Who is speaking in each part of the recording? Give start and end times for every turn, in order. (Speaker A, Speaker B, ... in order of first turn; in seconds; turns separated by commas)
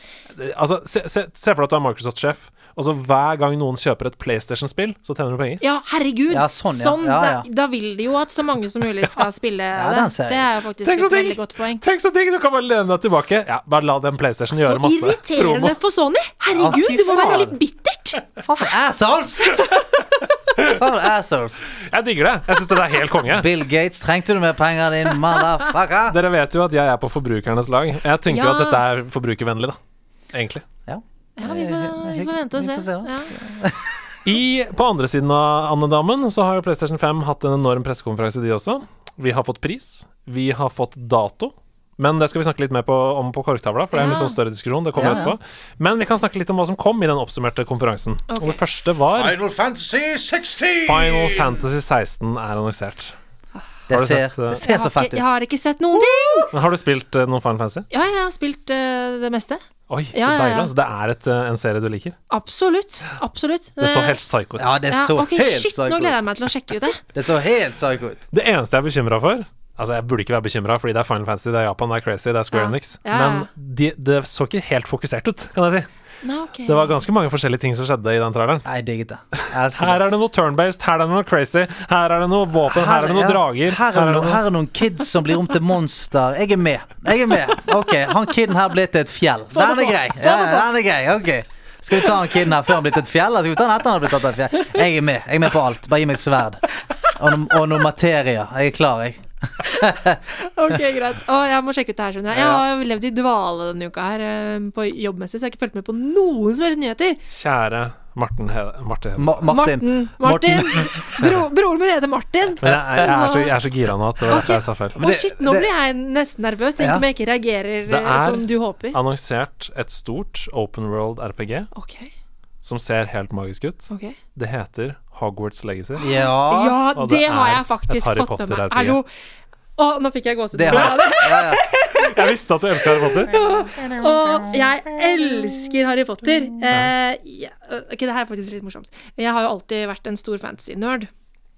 Speaker A: 0.3-5.6, Speaker B: 5.6-11.8, Speaker C: 6.3-7.5, Speaker C: 9.7-10.5, Speaker A: 10.8-15.8, Speaker B: 14.5-18.2, Speaker C: 16.5-17.6, Speaker C: 18.4-19.6, Speaker C: 20.6-21.7, Speaker A: 21.9-23.5, Speaker C: 23.2-26.2, Speaker A: 26.1-29.8, Speaker B: 28.3-28.8, Speaker A: 30.3-30.6, Speaker C: 30.9-34.1, Speaker B: 31.4-33.3, Speaker A: 34.2-49.4, Speaker B: 43.9-44.4, Speaker C: 45.0-45.4, Speaker B: 48.3-48.6, Speaker C: 49.1-51.6, Speaker A: 50.9-53.2, Speaker C: 53.9-55.3, Speaker A: 53.9-54.6, Speaker B: 54.5-56.5, Speaker C: 55.9-56.5, Speaker A: 56.5-57.9, Speaker B: 57.9-59.6, Speaker A: 59.9-62.1, Speaker B: 60.1-60.7, Speaker B: 62.3-64.2, Speaker A: 63.8-64.7, Speaker C: 64.6-66.2, Speaker B: 64.9-67.0, Speaker C: 67.1-68.2, Speaker A: 68.3-75.9, Speaker B: 72.5-73.5, Speaker B: 76.2-77.0, Speaker A: 76.7-78.7, Speaker C: 78.7-80.0, Speaker A: 79.4-84.4, Speaker C: 82.7-100.2, Speaker B: 89.5-90.7, Speaker B: 99.7-107.2, Speaker A: 102.3-102.7, Speaker A: 107.3-109.5, Speaker C: 109.2-111.2, Speaker B: 109.5-113.5, Speaker A: 112.6-115.0, Speaker C: 112.6-113.1, Speaker B: 114.3-119.0, Speaker C: 114.4-115.7, Speaker C: 116.8-117.0, Speaker A: 117.9-121.7, Speaker B: 121.7-122.1, Speaker A: 122.6-126.0, Speaker B: 123.9-124.2, Speaker C: 126.0-126.8, Speaker B: 126.0-129.1, Speaker A: 127.0-129.0, Speaker B: 129.8-132.3, Speaker C: 130.5-131.6, Speaker A: 130.7-131.2, Speaker A: 131.7-133.3, Speaker B: 133.0-141.1, Speaker C: 133.7-135.6